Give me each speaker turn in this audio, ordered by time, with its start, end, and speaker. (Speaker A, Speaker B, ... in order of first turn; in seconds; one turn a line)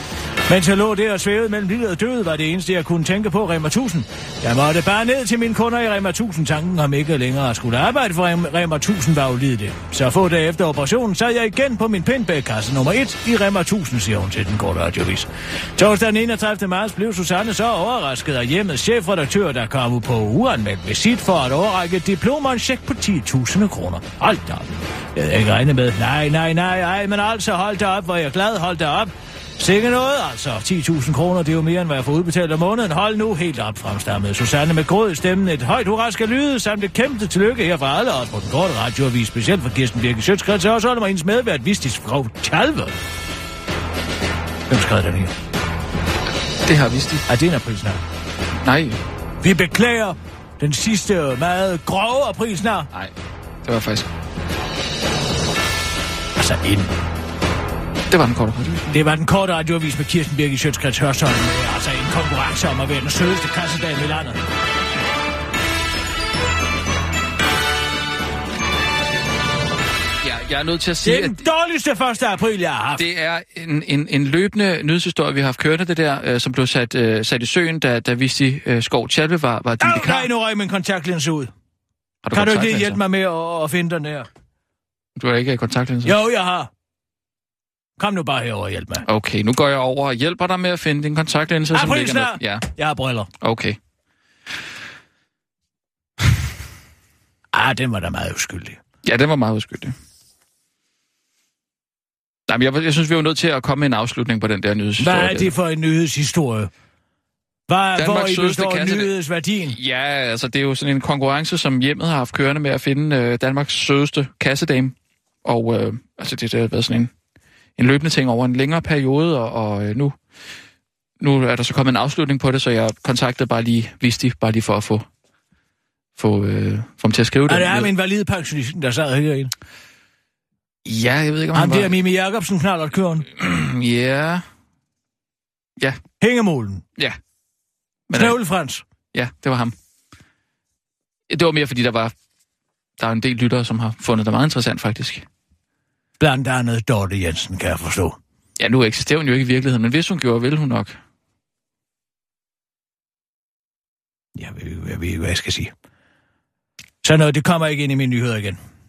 Speaker A: 0.5-42.9
Speaker A: 44.7-45.3
Speaker B: 46.6-47.2
Speaker A: 47.3-48.0
Speaker B: 48.6-49.0
Speaker A: 49.4-52.9
Speaker B: 53.6-54.0
Speaker A: 56.4-56.9
Speaker B: 58.1-59.0
Speaker A: 58.9-64.4
Speaker B: 70.2-71.4
Speaker A: 71.0-73.0
Speaker B: 73.0-80.3
Speaker A: 79.8-81.5
Speaker B: 82.2-83.0
Speaker A: 82.3-84.3
Speaker B: 85.2-86.2
Speaker A: 86.0-86.7
Speaker A: 88.0-89.0
Speaker B: 89.0-92.7
Speaker A: 91.7-93.3
Speaker B: 93.4-93.8
Speaker A: 97.5-98.8
Speaker B: 99.0-99.9
Speaker B: 102.5-105.5
Speaker A: 105.0-106.7
Speaker A: 107.7-109.8
Speaker B: 108.0-109.1
Speaker B: 109.7-117.1
Speaker B: 117.8-120.2
Speaker B: 121.2-125.0
Speaker B: 126.2-127.9
Speaker A: 127.5-129.5
Speaker B: 130.8-132.0
Speaker A: 131.5-133.2
Speaker B: 133.3-134.4
Speaker A: 136.2-136.8
Speaker B: 138.1-138.4
Speaker A: 138.1-138.8
Speaker B: 139.1-139.7
Speaker B: 141.3-142.1
Speaker B: 143.0-145.2
Speaker A: 146.2-148.2
Speaker B: 148.6-151.0
Speaker A: 154.3-155.7
Speaker A: 157.0-158.6